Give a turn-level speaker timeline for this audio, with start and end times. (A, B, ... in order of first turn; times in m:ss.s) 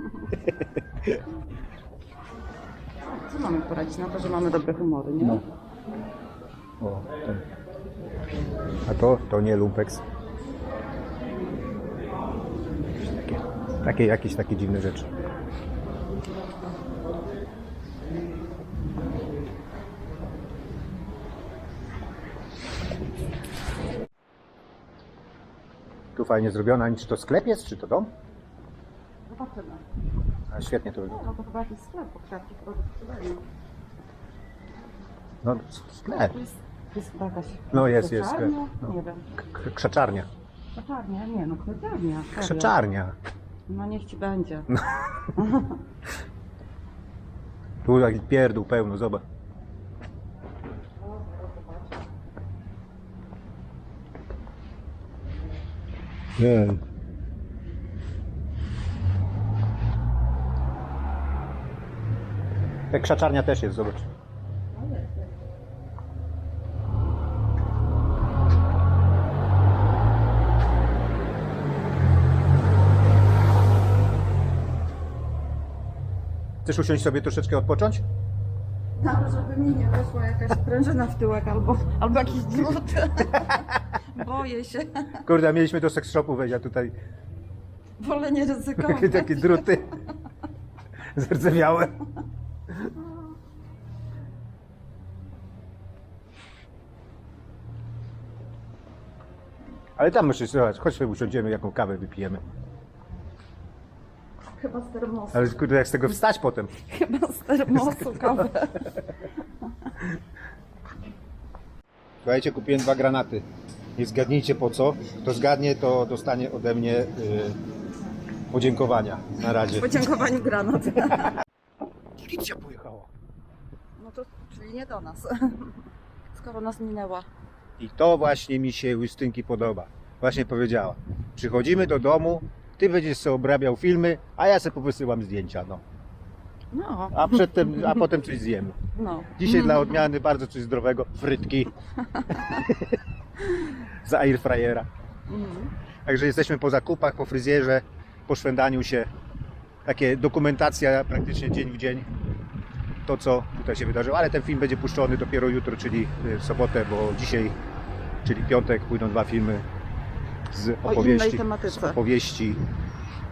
0:00.3-0:01.2 A
0:03.1-0:05.4 B
0:06.8-0:07.4 A
0:08.9-0:10.0 A
0:13.0-0:15.1 A
0:26.2-0:28.1 A
0:29.3-0:29.8 B
0:30.5-0:31.3 A
0:31.1-0:33.4 B
0:35.4-0:36.4 A
0:36.3-0:39.3 B
0:37.7-0:40.3 A
0:40.8-0:42.8 B
0:42.4-0:43.2 A
0:43.7-0:44.7 B
0:44.7-0:45.0 A
0:45.3-0:45.8 B
0:47.8-0:49.2 A
0:51.3-0:51.7 B
0:56.4-0:56.8 A
1:02.9-1:04.1 A
1:04.8-1:05.2 B
1:16.6-1:18.0 A
1:19.0-1:25.2 B
1:25.2-1:27.0 A
1:28.0-1:29.8 B
1:28.8-1:29.9 A
1:31.1-1:32.0 A
1:40.0-1:42.4 A
1:44.6-1:45.6 B
1:45.3-1:46.7 A
1:46.8-1:48.9 B
1:52.2-1:57.6 A
1:58.5-2:00.0 A
1:59.8-2:01.4 B
2:02.2-2:03.1 A
2:04.0-2:05.8 B
2:06.3-2:07.3 B
2:07.8-2:15.8 A
2:16.7-2:18.0 B
2:17.1-2:18.8 A
2:19.0-2:20.0 B
2:19.4-2:21.7 A
2:22.1-2:22.6 B
2:22.5-2:24.9 A
2:25.3-2:25.7 B
2:26.1-2:29.1 A
2:29.8-2:32.1 A
2:33.1-2:37.6 A
2:38.2-2:39.7 A
2:40.5-2:42.6 A
2:40.8-2:42.0 B